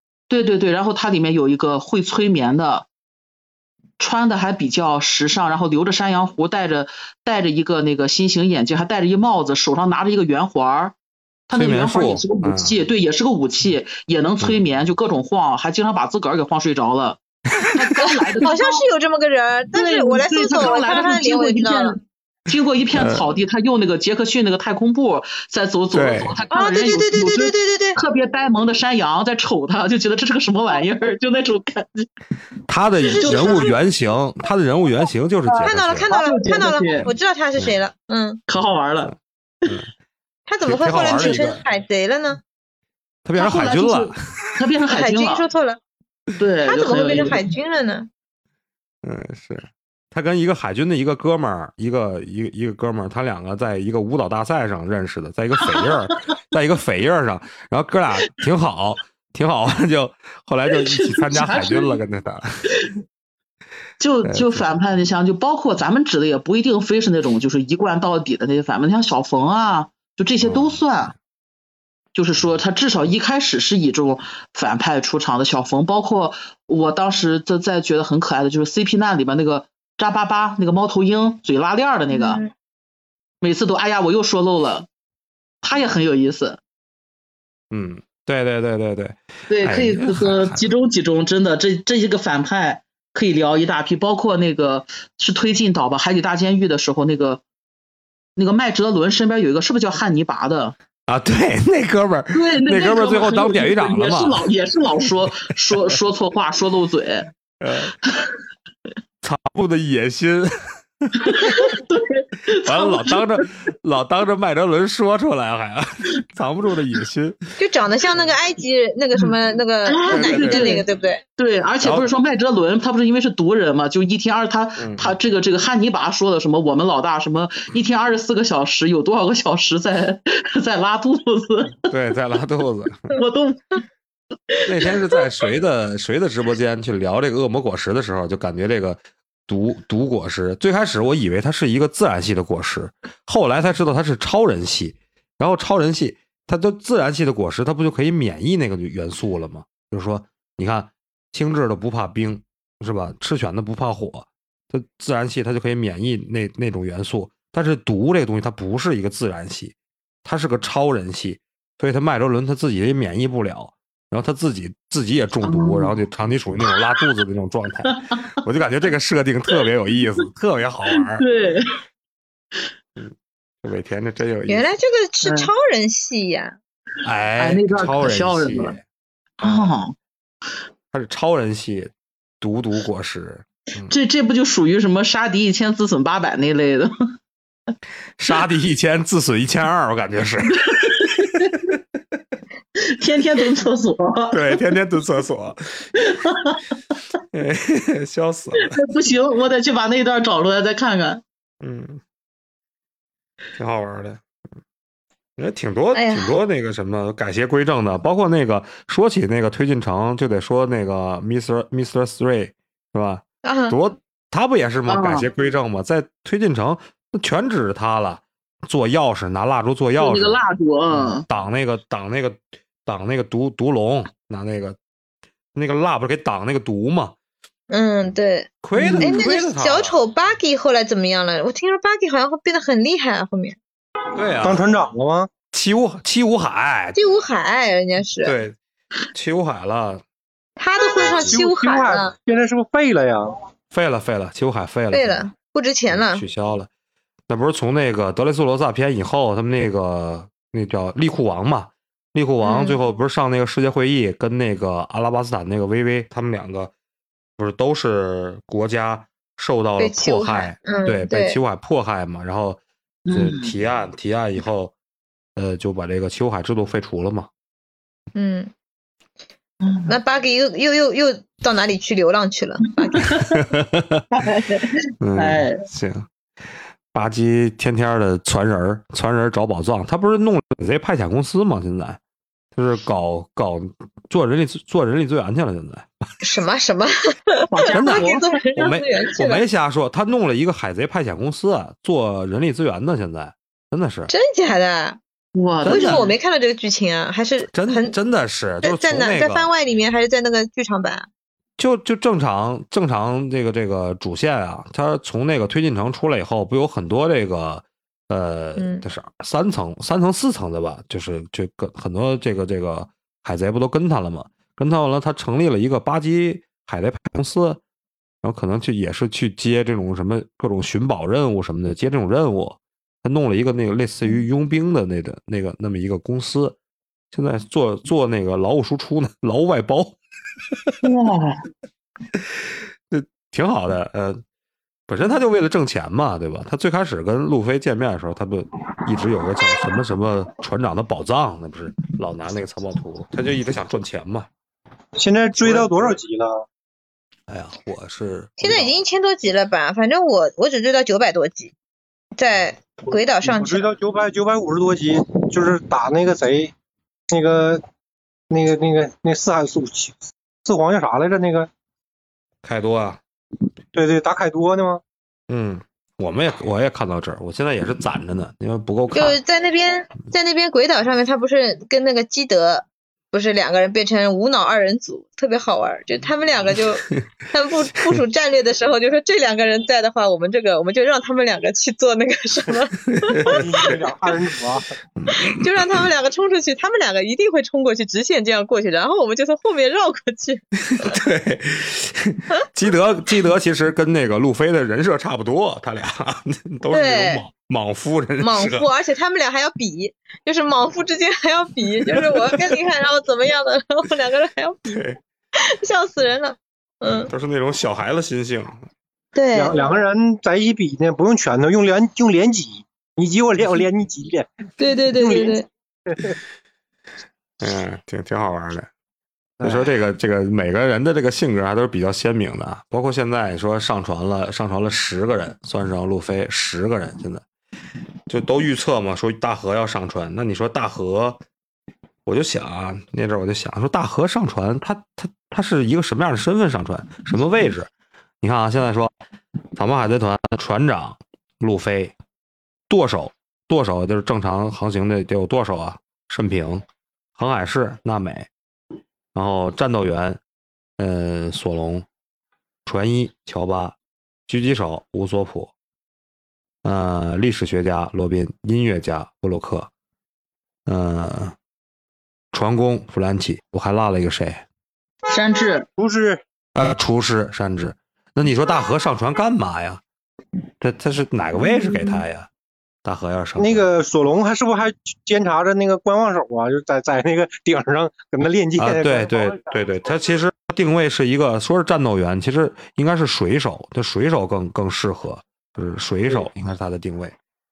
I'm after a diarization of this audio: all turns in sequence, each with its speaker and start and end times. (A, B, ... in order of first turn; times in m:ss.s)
0:00.3-0:02.9 A
0:04.0-0:10.9 A
0:11.5-0:18.8 A
0:11.5-0:12.8 B
0:18.4-0:22.0 C
0:19.7-0:32.1 A
0:22.9-0:23.2 B
0:25.9-0:26.3 B
0:26.5-0:28.0 C
0:32.7-0:36.1 B
0:33.0-0:33.7 C
0:33.2-0:33.7 A
0:35.5-0:37.1 A
0:35.6-0:38.4 C
0:38.5-0:39.1 A
0:40.5-0:42.4 C
0:40.6-0:41.6 B
0:43.2-0:44.2 B
0:43.3-0:45.4 A
0:44.9-0:45.8 C
0:46.4-0:47.4 A
0:46.6-0:48.1 C
0:49.0-1:02.9 B
1:00.7-1:02.0 A
1:04.0-1:11.1 A
1:04.2-1:04.6 B
1:10.4-1:10.8 B
1:12.1-1:22.4 A
1:22.1-1:22.5 C
1:23.4-1:24.9 A
1:25.6-1:26.6 A
1:27.7-1:30.6 B
1:29.5-1:37.4 A
1:38.4-1:40.7 A
1:41.1-1:44.4 B
1:42.3-1:47.3 A
1:47.6-1:47.9 B
1:49.2-1:51.6 B
1:51.2-1:53.4 A
1:52.6-1:57.4 B
1:57.6-2:01.2 C
1:59.8-2:00.8 A
2:00.1-2:00.8 B
2:01.4-2:11.8 A
2:01.8-2:02.1 B
2:04.8-2:05.1 B
2:11.9-2:13.1 B
2:13.1-2:13.8 A
2:14.5-2:15.2 A
2:14.6-2:51.2 B
2:45.4-2:46.0 A
2:47.9-2:48.2 A
2:51.0-2:51.8 A
2:53.0-2:54.7 B
2:54.5-2:56.6 C
2:55.2-2:55.5 A
2:57.0-2:58.8 B
2:57.4-2:58.7 A
2:59.4-2:59.7 B
2:59.4-2:59.9 A
3:00.9-3:03.9 B
3:03.9-3:06.9 A
3:08.2-3:11.8 B
3:10.6-3:11.6 A
3:12.8-3:14.6 A
3:14.3-3:15.9 B
3:16.0-3:16.6 A
3:17.3-3:18.8 B
3:18.6-3:21.2 A
3:21.6-3:22.0 B
3:23.6-3:24.2 B
3:25.4-3:40.4 B
3:25.9-3:26.3 C
3:33.4-3:33.8 C
3:34.9-3:35.3 A
3:40.0-3:41.2 A
3:40.9-3:44.8 B
3:45.5-3:47.1 B
3:47.7-3:48.5 C
3:48.6-3:50.0 B
3:48.7-3:49.2 A
3:49.0-3:53.6 C
3:54.2-3:54.7 B
3:54.4-3:55.3 D
3:55.5-3:57.0 B
3:56.9-3:58.4 C
3:58.2-3:58.6 B
3:59.1-4:00.0 B
4:00.6-4:02.1 C
4:01.1-4:03.3 D
4:03.7-4:05.3 B
4:04.9-4:06.2 C
4:05.9-4:06.7 B
4:07.3-4:16.7 B
4:12.4-4:12.8 C
4:17.4-4:24.7 B
4:19.8-4:21.4 C
4:23.1-4:23.5 A
4:25.4-4:27.3 B
4:28.1-4:28.5 C
4:29.6-4:29.9 A
4:29.9-4:33.1 C
4:33.0-4:33.2 A
4:33.2-4:34.0 B
4:34.1-4:35.6 A
4:35.0-4:36.1 B
4:36.9-4:42.0 B
4:42.5-4:45.9 B
4:46.2-4:49.4 C
4:47.5-4:48.7 A
4:47.7-4:54.1 B
4:54.1-4:55.0 C
4:55.3-4:56.1 A
4:55.6-4:56.1 B
4:55.6-4:57.9 C
4:57.5-4:59.5 B
4:58.6-5:01.1 C
5:01.6-5:17.6 B
5:08.6-5:08.8 C
5:18.2-5:26.6 B
5:27.1-5:30.0 B
5:30.8-5:31.4 A
5:32.2-5:34.2 B
5:34.9-5:44.3 B
5:45.0-5:46.4 D
5:45.4-5:45.7 B
5:47.3-5:48.7 B
5:48.4-5:51.5 C
5:52.2-5:53.7 C
5:53.2-5:56.5 D
5:57.1-5:57.6 D
5:58.3-6:01.5 D
6:02.4-6:03.0 B
6:03.7-6:04.8 D
6:05.3-6:09.2 B
6:08.9-6:23.6 C
6:23.0-6:23.7 B
6:23.2-6:24.7 D
6:25.0-6:25.4 B
6:25.1-6:31.0 C
6:30.7-6:38.7 B
6:36.7-6:37.2 C
6:38.2-6:44.8 C
6:44.7-6:45.0 B
6:45.4-6:47.1 C
6:46.9-6:48.6 B
6:49.1-6:49.6 C
6:49.3-6:54.3 D
6:54.6-6:55.5 C
6:54.9-6:55.4 D
6:55.9-6:56.1 D
6:57.4-6:58.7 B
6:59.4-6:59.7 D
6:59.4-7:07.2 B
7:08.1-7:11.2 B
7:12.0-7:17.7 B
7:18.2-7:18.9 B
7:19.6-7:21.9 B
7:22.7-7:26.6 B
7:27.2-7:28.3 B
7:29.1-7:30.2 B
7:30.8-7:31.8 B
7:32.6-7:33.8 B
7:34.3-7:35.5 B
7:36.6-7:39.7 B
7:40.7-7:41.4 B
7:42.3-7:44.4 B
7:45.1-7:45.7 A
7:45.8-7:46.2 D
7:46.6-7:49.8 B
7:50.6-7:52.3 B
7:52.8-7:53.7 B
7:53.4-7:59.4 D
7:58.6-8:07.2 B